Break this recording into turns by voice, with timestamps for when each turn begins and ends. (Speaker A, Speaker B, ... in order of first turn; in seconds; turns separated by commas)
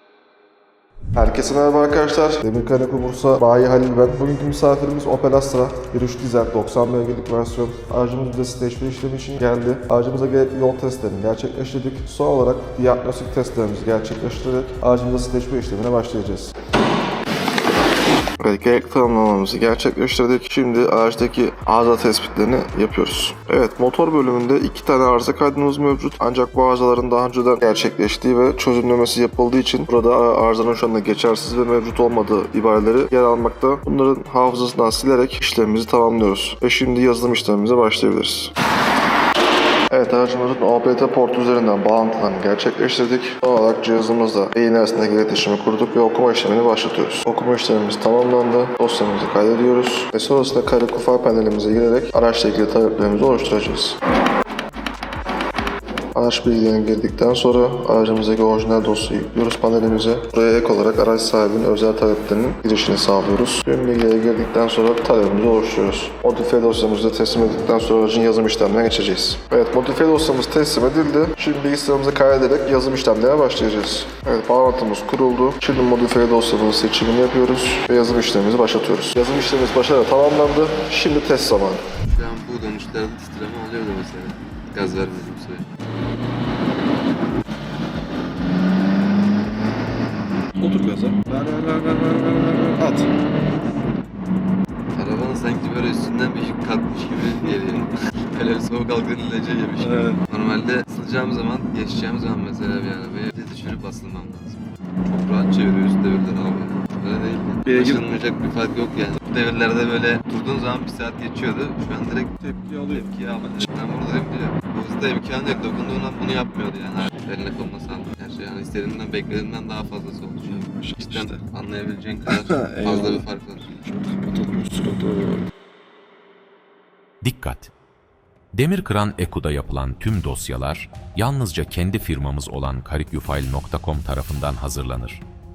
Speaker A: 1.1-16.5, Speaker A: 18.4-38.5, Speaker A: 39.9-54.0, Speaker A: 56.1-81.8, Speaker B: 82.0-85.7, Speaker C: 90.6-93.0, Speaker B: 94.9-123.7, Speaker C: 99.8-100.2, Speaker C: 107.7-108.0, Speaker C: 112.4-113.0, Speaker C: 120.5-121.4, Speaker C: 122.3-123.2, Speaker C: 123.8-125.5, Speaker D: 127.2-127.7, Speaker D: 128.5-135.2